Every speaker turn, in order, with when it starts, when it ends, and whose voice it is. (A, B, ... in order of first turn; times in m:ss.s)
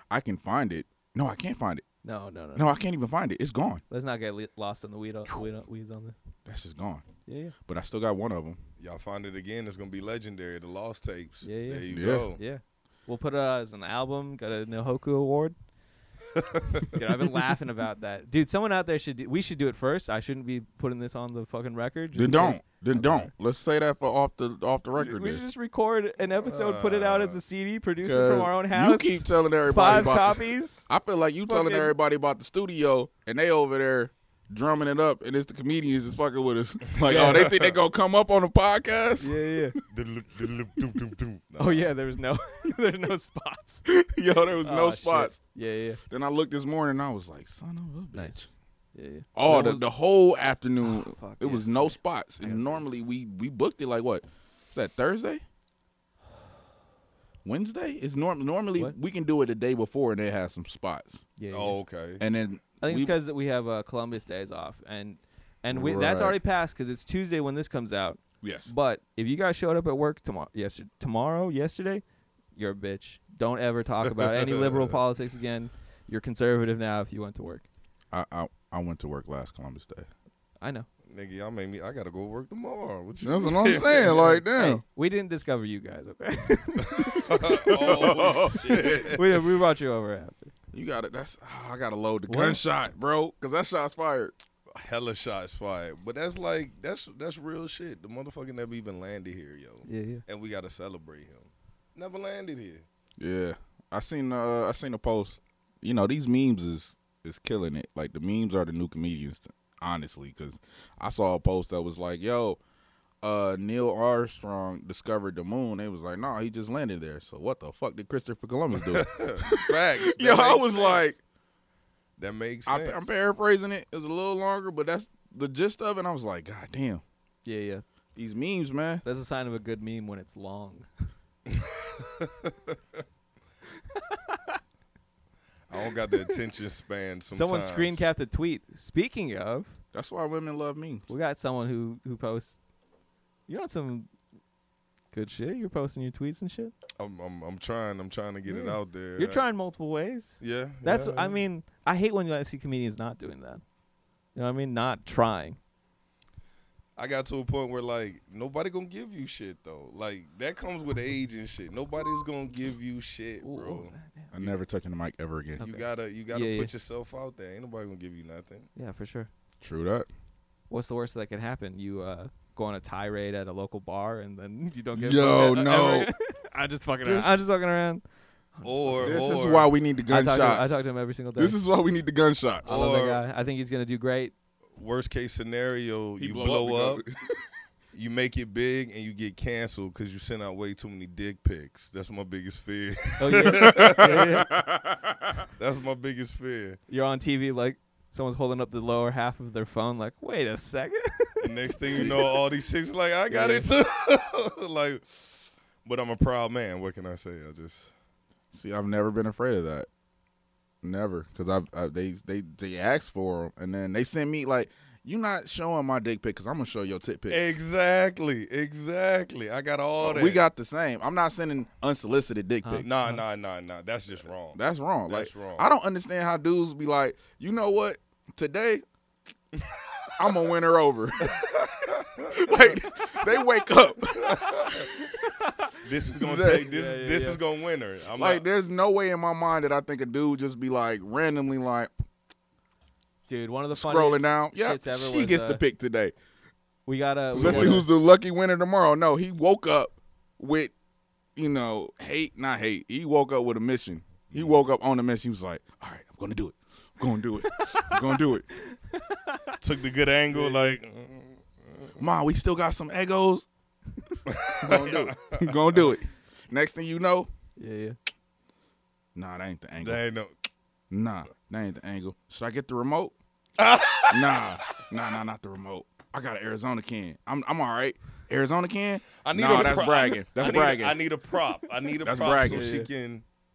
0:00.1-0:01.8 A
0:02.0-0:02.8 B
0:02.6-0:03.8 A
0:03.9-0:06.2 B
0:06.5-0:07.1 A
0:07.3-0:07.6 B
0:07.7-0:08.6 A
0:08.8-0:12.4 C
0:11.4-0:11.8 B
0:11.9-0:12.3 A
0:12.4-0:15.6 B
0:16.4-0:16.9 C
0:16.9-0:23.3 B
0:22.1-0:25.4 A
0:25.0-0:30.9 B
0:26.4-0:27.4 C
0:28.0-0:39.8 A
0:31.5-0:31.9 B
0:37.0-0:37.8 C
0:37.0-0:37.6 B
0:39.2-0:39.8 B
0:39.9-0:41.9 C
0:41.6-0:43.9 B
0:43.9-0:45.4 A
0:44.6-0:46.0 B
0:46.1-0:48.5 A
0:48.2-0:49.9 B
0:49.4-0:55.4 A
0:50.8-0:52.8 B
0:57.4-1:01.3 A
1:01.4-1:01.8 B
1:01.5-1:02.2 C
1:02.2-1:03.1 A
1:02.8-1:12.0 B
1:05.7-1:06.4 A
1:08.4-1:08.7 A
1:12.6-1:17.6 B
1:14.1-1:15.0 C
1:18.1-1:20.1 A
1:20.6-1:20.9 B
1:21.1-1:24.4 C
1:23.2-1:24.8 A
1:24.0-1:30.5 B
1:26.9-1:29.3 C
1:27.7-1:29.2 A
1:30.7-1:34.4 A
1:32.3-1:32.6 B
1:34.7-1:42.9 C
1:39.9-1:40.2 B
1:43.2-1:52.6 A
1:53.2-2:01.2 A
1:58.8-2:01.1 C
2:02.2-2:03.1 C
2:02.7-2:07.0 A
2:07.4-2:07.8 B
2:08.2-2:09.0 A
2:09.0-2:10.9 B
2:11.5-2:12.7 C
2:13.9-2:14.6 B
2:15.7-2:18.0 C
2:16.1-2:16.4 B
2:17.3-2:19.8 B
2:19.9-2:21.1 A
2:21.1-2:22.6 B
2:23.5-2:24.1 B
2:25.1-2:26.7 B
2:27.0-2:29.4 C
2:28.5-2:33.6 B
2:30.4-2:31.4 C
2:34.4-2:35.6 B
2:37.0-2:44.6 C
2:43.4-2:44.3 B
2:44.3-2:45.6 A
2:45.6-2:46.7 B
2:45.6-2:48.7 C
2:48.8-2:49.3 B
2:49.6-2:50.1 A
2:50.7-2:58.0 B
2:54.9-2:56.1 A
2:57.0-2:57.4 A
2:58.6-2:59.4 B
2:58.6-2:59.7 C
2:59.0-3:02.8 A
3:00.1-3:01.6 B
3:02.6-3:03.2 C
3:02.6-3:04.3 B
3:04.8-3:07.0 C
3:06.2-3:07.4 A
3:07.9-3:14.4 C
3:13.2-3:14.5 B
3:13.3-3:15.5 A
3:15.6-3:16.8 C
3:16.9-3:22.2 B
3:21.4-3:27.9 C
3:21.9-3:22.2 A
3:23.3-3:23.7 B
3:28.5-3:29.9 A
3:30.8-3:37.5 A
3:37.3-3:40.4 C
3:40.0-3:42.9 A
3:42.6-3:43.2 B
3:42.8-3:45.7 C
3:44.6-3:48.8 A
3:50.2-3:51.5 A
3:51.2-3:52.8 C
3:52.2-3:54.9 A
3:54.2-3:54.8 C
3:55.1-3:55.7 B
3:55.8-3:58.4 C
3:56.2-3:56.7 A
3:56.4-3:57.4 B
3:58.2-4:02.0 A
4:03.3-4:05.6 B
4:03.7-4:06.1 A
4:06.9-4:07.9 B
4:07.3-4:10.7 A
4:07.4-4:07.8 C
4:11.4-4:18.5 A
4:14.3-4:14.6 C
4:17.4-4:19.6 B
4:19.6-4:22.0 C
4:20.3-4:20.8 B
4:22.0-4:23.5 A
4:24.3-4:25.5 C
4:24.6-4:27.3 A
4:27.6-4:28.0 B
4:29.2-4:30.0 A
4:29.8-4:30.3 C
4:30.9-4:33.1 A
4:33.6-4:34.8 C
4:34.1-4:41.0 A
4:39.2-4:43.2 C
4:42.0-4:42.7 A
4:42.5-4:42.9 B